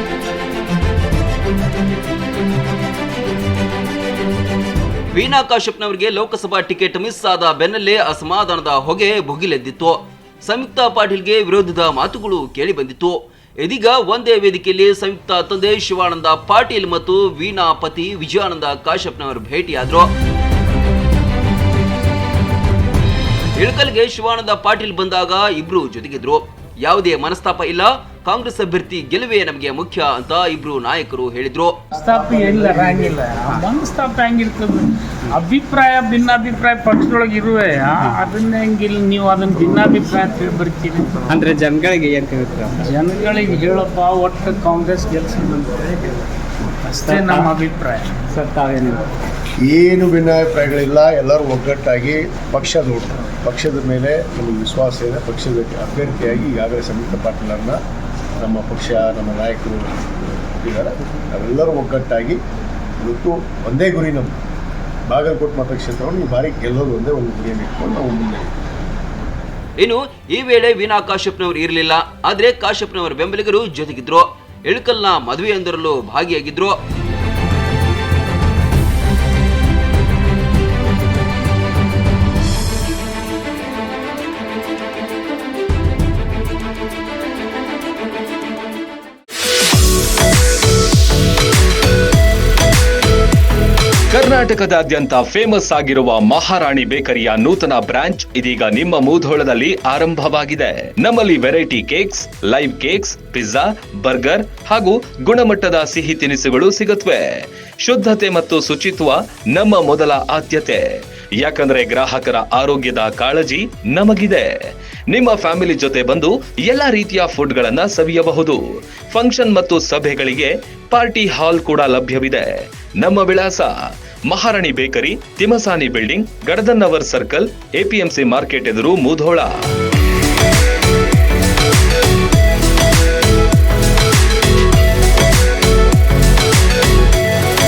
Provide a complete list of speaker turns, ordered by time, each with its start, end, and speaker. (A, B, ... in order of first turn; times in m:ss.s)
0:05.1-0:20.1 A
0:23.5-0:31.8 A
0:31.9-0:41.2 B
0:41.3-0:42.9 C
0:42.8-0:46.1 B
0:46.8-0:48.2 B
0:47.0-0:47.4 C
0:48.4-0:49.0 C
0:49.6-0:57.8 D
0:58.4-1:02.4 D
1:03.0-1:04.3 D
1:05.1-1:08.5 D
1:09.8-1:16.8 A
1:34.1-1:47.2 E
1:47.8-1:50.8 E
1:51.4-1:54.5 E
1:55.1-1:58.6 E
1:59.1-2:03.7 E
2:04.3-2:09.5 E